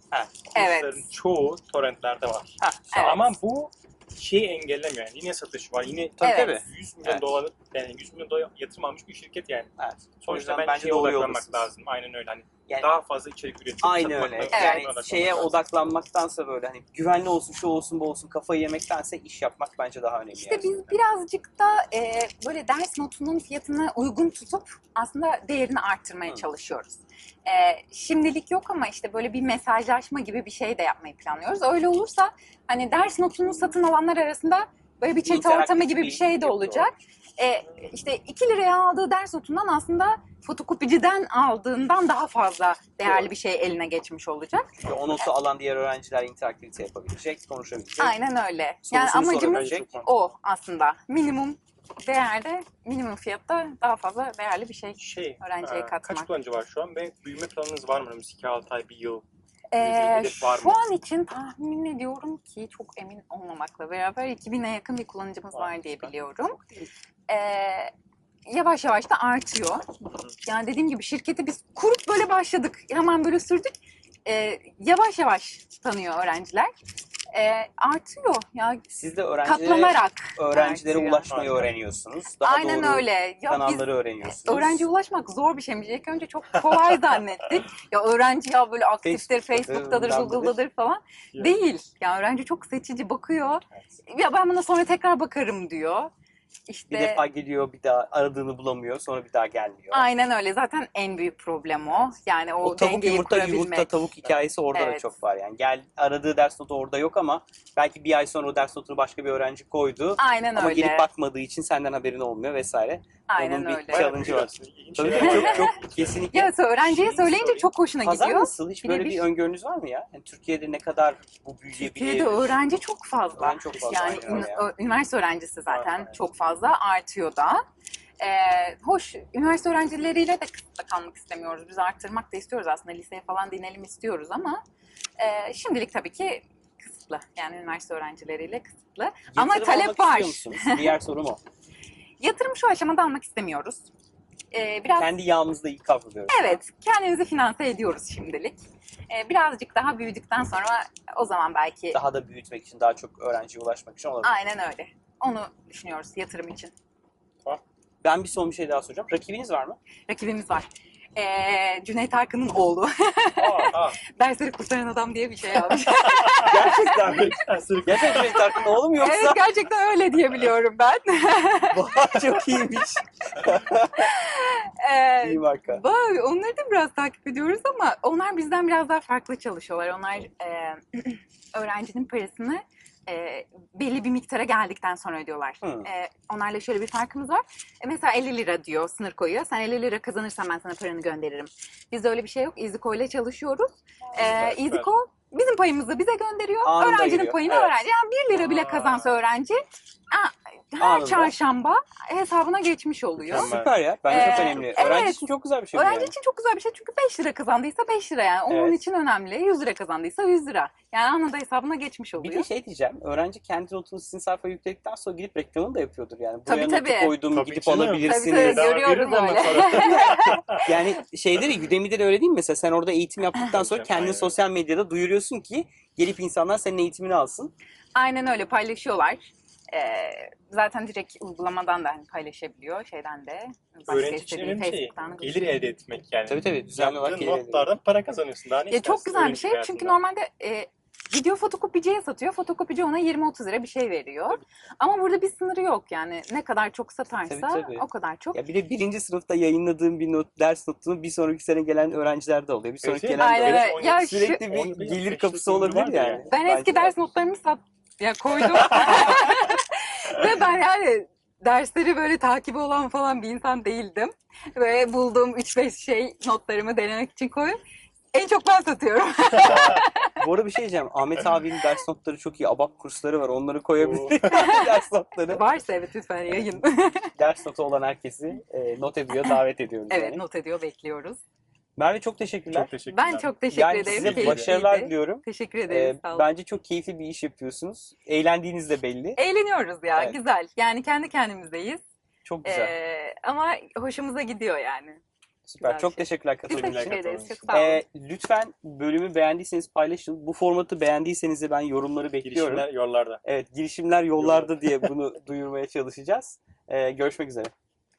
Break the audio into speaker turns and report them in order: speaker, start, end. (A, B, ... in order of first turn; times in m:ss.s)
0:00.1-0:00.5 A
0:00.5-0:15.6 B
0:00.5-0:01.1 C
0:02.6-0:03.2 A
0:02.9-0:03.3 C
0:06.2-0:07.3 A
0:06.2-0:06.6 C
0:09.8-0:11.7 A
0:12.7-0:12.9 A
0:13.8-0:20.8 A
0:14.5-0:14.9 C
0:20.4-0:44.8 C
0:35.1-0:36.9 A
0:43.0-0:43.3 A
0:44.8-0:48.2 A
0:48.0-0:56.3 C
0:48.8-0:49.9 A
0:49.3-0:50.1 B
0:55.0-0:59.2 B
0:59.7-1:06.6 C
0:59.8-1:00.8 B
1:07.3-1:07.9 C
1:08.4-1:09.8 C
1:10.4-1:13.7 C
1:14.2-1:16.7 C
1:17.3-1:18.8 C
1:18.9-1:24.9 A
1:19.4-1:21.4 C
1:21.3-1:21.7 B
1:22.4-1:36.1 C
1:29.0-1:30.6 A
1:36.7-1:37.2 C
1:36.9-1:40.1 A
1:39.9-1:44.0 C
1:42.6-1:56.5 A
1:44.7-1:45.1 C
1:50.2-1:51.1 C
1:53.3-1:54.1 C
1:53.9-1:57.7 B
1:55.2-1:55.7 C
1:56.3-1:59.3 C
1:58.0-2:02.6 A
2:01.8-2:07.6 C
2:03.3-2:04.7 A
2:05.7-2:06.1 B
2:08.2-2:14.6 C
2:15.2-2:20.9 C
2:19.3-2:21.4 A
2:22.2-2:23.9 C
2:24.5-2:25.1 C
2:25.0-2:26.6 A
2:26.3-2:28.6 C
2:29.1-2:32.0 C
2:31.9-2:34.4 A
2:34.2-2:36.7 C
2:38.0-2:39.8 A
2:40.1-2:47.3 C
2:43.4-2:44.0 B
2:46.0-2:48.5 B
2:46.4-2:49.5 A
2:48.2-2:51.9 C
2:51.7-2:54.1 A
2:52.0-2:52.4 B
2:54.0-3:23.5 C
2:55.2-2:55.8 A
3:05.6-3:05.9 A
3:14.2-3:14.9 B
3:16.6-3:17.5 A
3:17.5-3:17.8 B
3:18.3-3:19.2 B
3:20.8-3:21.3 A
3:23.2-3:24.9 B
3:23.2-3:26.1 A
3:24.1-3:32.5 C
3:28.5-3:28.8 A
3:32.2-3:47.5 A
3:36.4-3:37.2 C
3:37.3-3:40.7 B
3:38.0-3:40.5 C
3:43.4-3:44.4 B
3:47.9-3:55.4 C
3:53.9-4:00.0 B
3:56.2-3:57.7 A
3:58.7-4:08.4 C
4:07.2-4:17.0 A
4:12.8-4:16.3 B
4:13.2-4:14.5 C
4:16.3-4:27.6 C
4:28.1-4:30.1 C
4:29.4-4:29.8 B
4:30.2-4:35.5 A
4:33.8-4:34.6 B
4:34.3-4:34.7 C
4:35.3-4:37.1 C
4:36.3-4:36.6 A
4:37.2-4:40.2 A
4:39.9-4:41.2 C
4:41.8-4:42.7 A
4:42.5-4:44.5 B
4:42.9-4:46.3 C
4:43.5-4:49.2 A
4:49.2-4:51.8 C
4:52.2-4:52.7 A
4:52.4-4:55.0 C
4:55.4-5:02.7 A
4:55.6-4:57.8 C
4:56.5-4:57.6 B
5:02.2-5:03.2 B
5:03.2-5:07.5 A
5:04.2-5:04.7 B